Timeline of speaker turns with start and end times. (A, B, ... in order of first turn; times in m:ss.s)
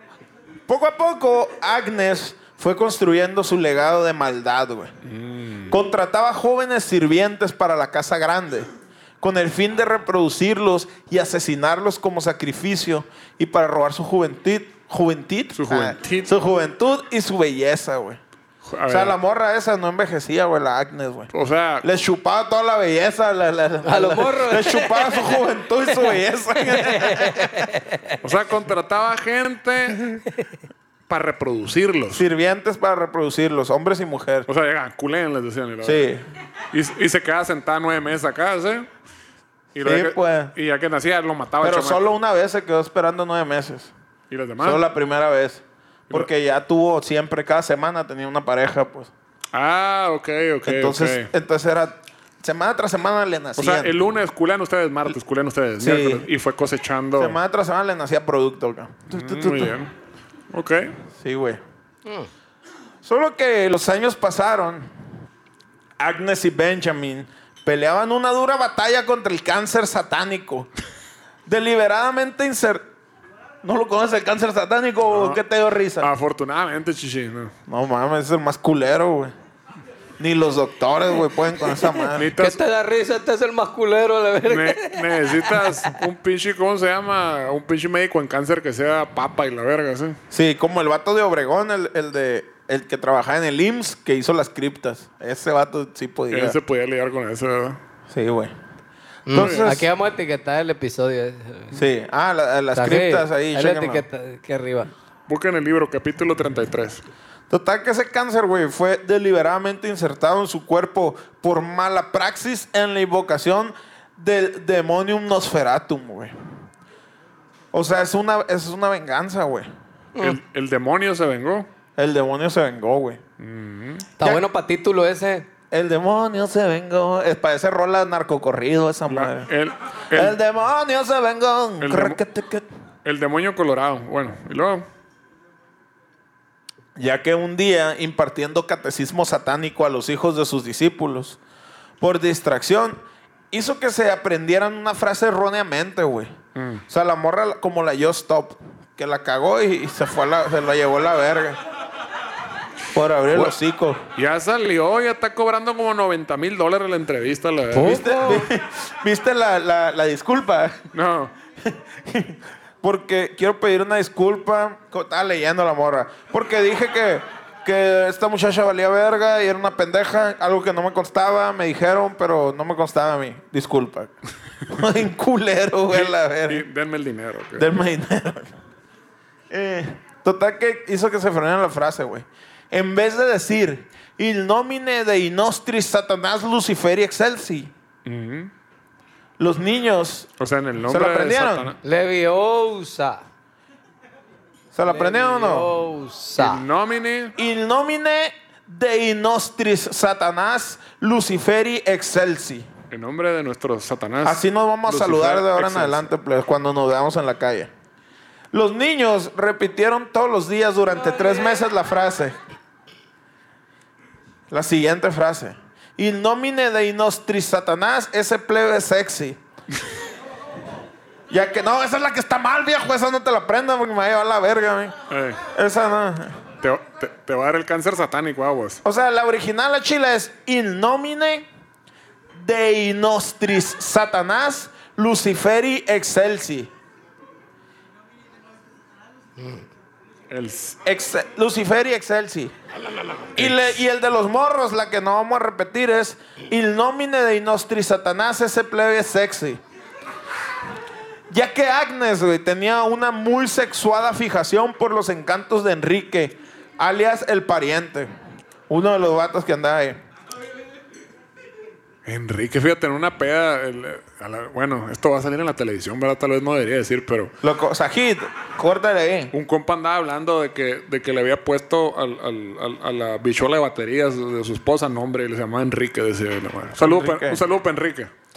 0:00.7-0:04.9 A
0:05.0-0:05.8 B
0:05.7-0:08.7 A
0:09.2-0:18.2 A
0:15.5-0:16.3 B
0:18.6-0:19.2 B
0:18.9-0:21.3 A
0:21.3-0:21.8 B
0:21.8-0:27.6 A
0:23.8-0:28.2 C
0:28.2-0:30.2 B
0:31.1-0:32.2 B
0:32.1-0:34.5 A
0:34.5-0:36.1 B
0:35.8-0:36.2 A
0:36.7-0:38.9 B
0:39.7-0:42.0 B
0:39.8-0:40.5 A
0:41.6-0:43.9 A
0:44.3-0:44.8 B
0:44.6-0:49.1 A
0:49.5-0:51.3 B
0:50.6-0:53.9 A
0:53.6-0:57.4 B
0:55.8-0:56.3 A
0:57.2-0:59.8 A
0:59.1-0:59.9 B
1:00.5-1:00.9 B
1:01.2-1:01.6 A
1:03.0-1:04.9 A
1:06.0-1:10.7 A
1:11.4-1:12.8 A
1:13.6-1:16.1 A
1:15.1-1:15.4 B
1:16.0-1:17.5 B
1:17.7-1:19.3 A
1:20.2-1:22.3 A
1:22.1-1:22.6 B
1:22.4-1:25.9 C
1:24.5-1:30.2 B
1:30.3-1:36.6 A
1:36.3-1:37.8 B
1:38.1-1:38.5 A
1:39.2-1:41.8 C
1:39.3-1:39.9 A
1:39.3-1:39.7 B
1:41.7-1:44.0 A
1:42.7-1:44.9 C
1:45.3-1:47.0 B
1:47.5-1:56.3 A
1:57.7-1:59.7 A
2:00.2-2:01.7 B
2:02.0-2:03.2 A
2:03.4-2:04.1 B
2:04.2-2:05.5 C
2:05.7-2:09.5 A
2:09.1-2:10.4 B
2:10.1-2:12.6 A
2:11.8-2:12.2 B
2:13.0-2:14.8 B
2:17.0-2:21.4 A
2:22.0-2:23.0 A
2:23.5-2:26.3 A
2:26.6-2:26.8 B
2:26.9-2:31.6 A
2:32.9-2:34.0 A
2:34.2-2:38.0 B
2:37.7-2:38.5 C
2:37.8-2:40.8 A
2:40.9-2:41.3 B
2:41.6-2:54.1 A
2:54.7-2:56.6 A
2:55.9-2:57.7 B
2:57.6-2:58.5 A
2:59.5-3:07.7 A
3:08.0-3:08.5 B
3:09.4-3:10.3 A
3:10.4-3:11.8 B
3:10.8-3:11.7 A
3:11.8-3:13.2 C
3:14.7-3:15.7 A
3:14.8-3:16.6 C
3:16.4-3:17.3 B
3:17.4-3:22.7 A
3:22.9-3:26.1 B
3:24.2-3:27.7 A
3:28.5-3:32.3 A
3:30.9-3:31.6 C
3:34.5-3:39.4 A
3:41.3-3:45.0 A
3:45.1-3:45.4 B
3:45.5-3:46.4 A
3:46.6-3:48.8 B
3:48.8-3:51.4 A
3:52.3-3:56.7 A
4:00.3-4:00.8 B
4:00.8-4:02.5 A
4:03.4-4:09.6 A
4:03.4-4:03.7 B
4:11.3-4:18.1 A
4:18.7-4:20.0 A
4:22.0-4:27.3 B
4:27.4-4:29.3 A
4:29.3-4:38.1 B
4:36.8-4:37.4 A